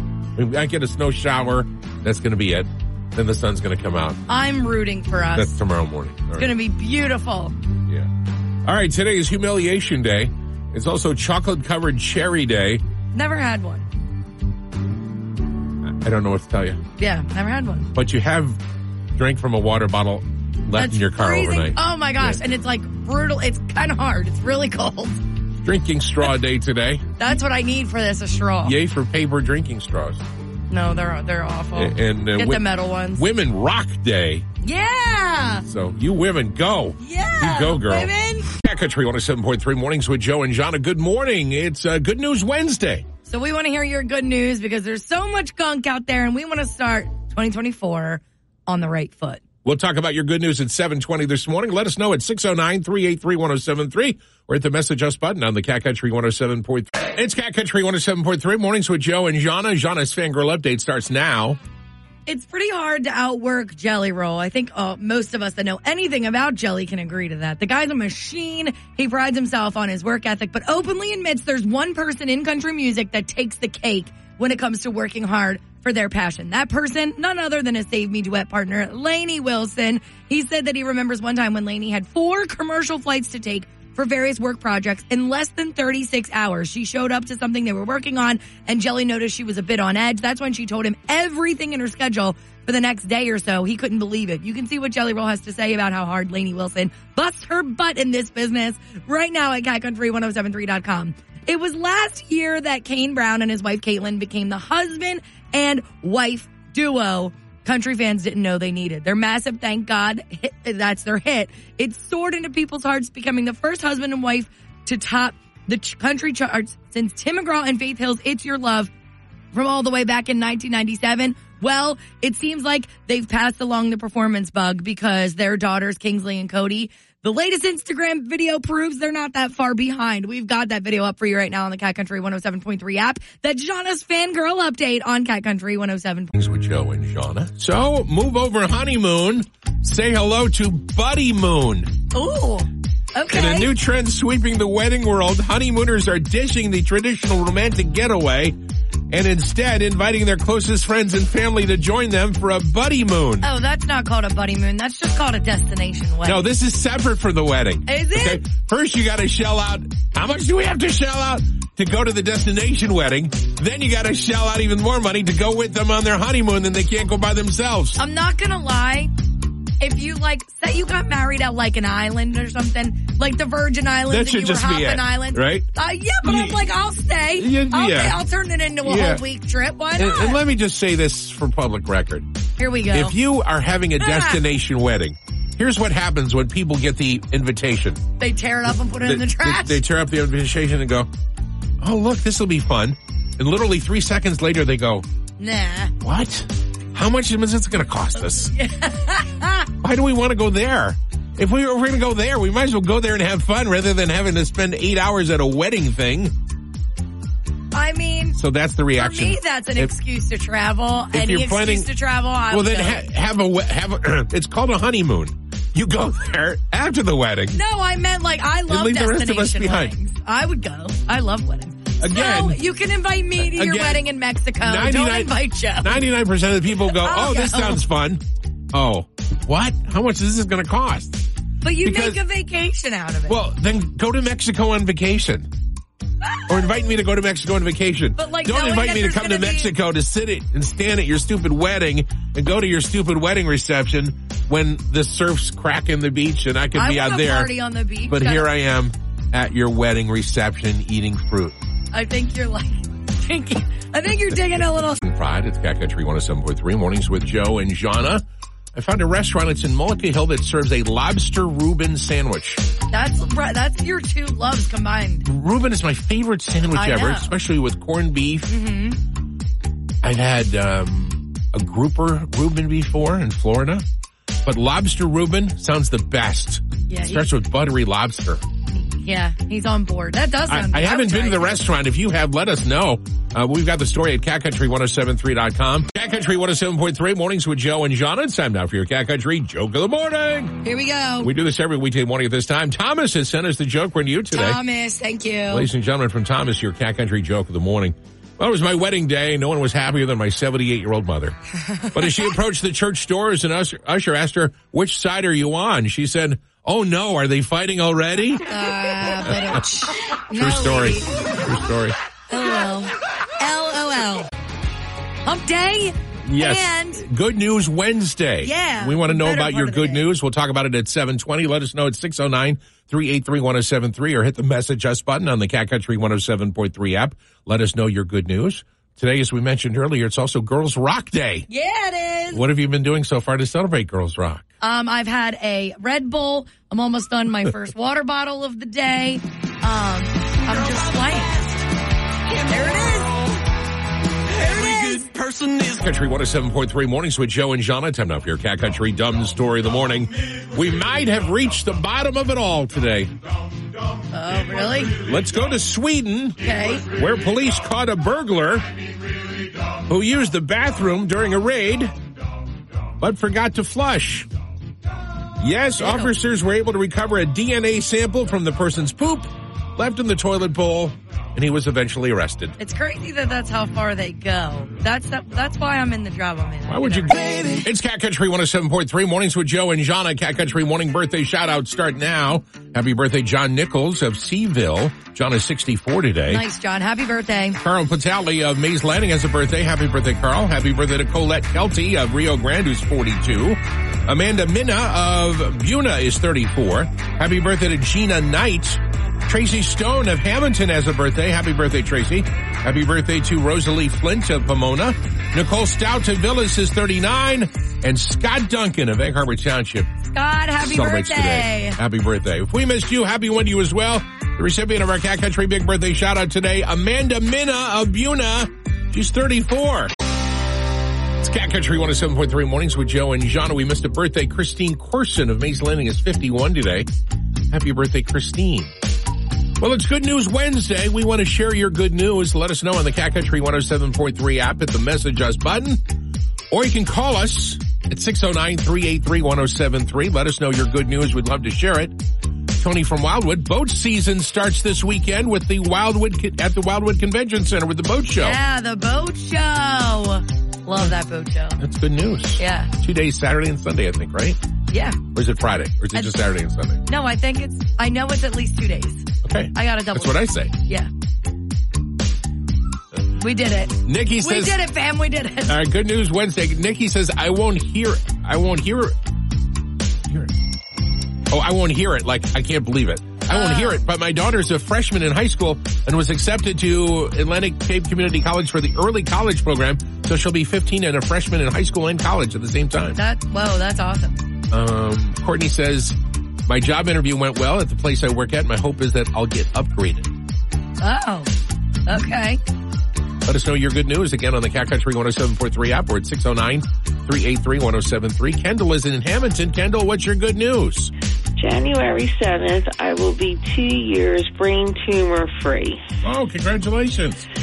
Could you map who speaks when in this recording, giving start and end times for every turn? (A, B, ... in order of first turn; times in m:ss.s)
0:00.3-0:04.2 A
0:04.3-0:05.6 B
0:05.4-0:06.5 A
0:06.4-0:07.5 B
0:08.6-0:12.8 A
0:13.1-0:13.8 B
0:15.8-0:16.8 A
0:17.0-0:17.9 B
0:17.9-0:18.6 A
0:19.2-0:22.4 A
0:20.7-0:25.2 B
0:25.6-0:27.1 A
0:27.2-0:28.8 B
0:28.6-0:30.2 A
0:30.7-0:33.2 B
0:31.7-0:34.4 A
0:34.6-0:35.6 B
0:35.6-0:43.1 A
0:37.0-0:38.5 B
0:43.2-0:49.4 B
0:49.6-1:01.6 A
1:02.3-1:58.9 B
1:59.5-2:16.3 B
2:16.3-2:21.9 A
2:22.1-2:23.7 B
2:23.3-2:28.6 A
2:29.1-2:33.5 A
2:33.4-2:36.5 B
2:36.2-2:48.0 A
2:37.9-2:38.4 B
2:48.0-2:49.1 B
2:49.8-3:00.4 B
2:54.1-2:55.7 A
2:56.2-2:56.6 A
2:57.4-2:58.2 A
2:58.8-2:59.2 A
3:00.0-3:02.2 A
3:02.6-3:03.2 B
3:02.9-3:08.0 A
3:04.0-3:04.4 B
3:08.2-3:09.8 B
3:09.0-3:11.1 A
3:11.8-3:15.0 A
3:15.4-3:15.9 B
3:16.0-3:18.5 A
3:18.2-3:19.7 B
3:19.8-3:26.3 A
3:27.7-3:28.4 B
3:28.4-3:29.9 A
3:28.9-3:33.0 B
3:31.1-3:31.9 A
3:32.5-3:37.6 A
3:37.5-3:46.0 B
3:38.7-3:39.9 A
3:42.0-3:42.6 A
3:43.4-3:44.0 A
3:44.6-3:48.2 A
3:46.7-3:47.8 B
3:48.7-3:51.2 A
3:51.6-3:53.4 B
3:51.8-3:52.2 A
3:53.3-3:55.5 A
3:56.2-3:56.9 B
3:56.5-4:07.5 A
3:58.2-3:59.7 B
4:06.7-4:08.5 B
4:08.1-4:11.6 A
4:11.9-4:15.0 B
4:15.0-4:18.2 A
4:18.7-4:22.6 A
4:22.9-4:25.2 B
4:25.2-4:28.5 A
4:26.7-4:27.3 B
4:28.5-4:29.0 B
4:30.0-4:33.8 A
4:34.4-4:38.4 A
4:36.9-4:37.3 B
4:38.7-4:41.7 B
4:40.5-4:50.6 A
4:50.6-4:51.3 B
4:51.2-4:54.6 A
4:54.3-4:55.7 B
4:55.5-5:01.4 A
5:01.6-5:02.3 B
5:01.9-5:08.5 A
5:08.5-5:11.1 B
5:10.4-5:12.0 A
5:12.3-5:14.3 B
5:15.2-5:17.0 B
5:16.2-5:31.5 A
5:18.4-5:20.1 B
5:31.5-5:32.4 B
5:32.3-5:34.4 A
5:34.6-5:41.7 B
5:42.3-5:43.3 B
5:44.3-5:45.2 B
5:45.4-5:53.1 A
5:54.1-5:55.0 B
5:54.9-5:58.7 A
5:56.4-5:56.9 B
5:59.9-6:01.9 A
6:03.0-6:04.3 A
6:05.4-6:12.6 A
6:05.8-6:06.1 B
6:12.6-6:17.5 B
6:16.7-6:26.4 A
6:26.3-6:27.6 B
6:27.6-6:49.9 A
6:50.0-6:51.8 B
6:50.6-6:59.9 A
7:01.2-7:06.9 A
7:07.5-7:08.7 A
7:09.6-7:15.8 A
7:16.5-7:21.9 A
7:22.6-7:28.4 A
7:28.2-7:31.6 B
7:31.6-7:34.4 A
7:32.4-7:32.7 B
7:34.7-7:35.0 B
7:35.1-7:36.9 A
7:35.9-7:36.2 B
7:36.9-7:40.9 B
7:39.2-7:40.5 A
7:43.2-7:45.6 B
7:43.8-7:44.6 A
7:45.5-7:48.9 A
7:51.3-8:03.0 A
7:53.3-7:53.8 B
8:03.0-8:04.2 B
8:04.5-8:10.1 A
8:10.8-8:11.3 B
8:11.9-8:12.4 B
8:13.2-8:20.9 A
8:21.4-8:25.8 C
8:26.0-8:27.3 A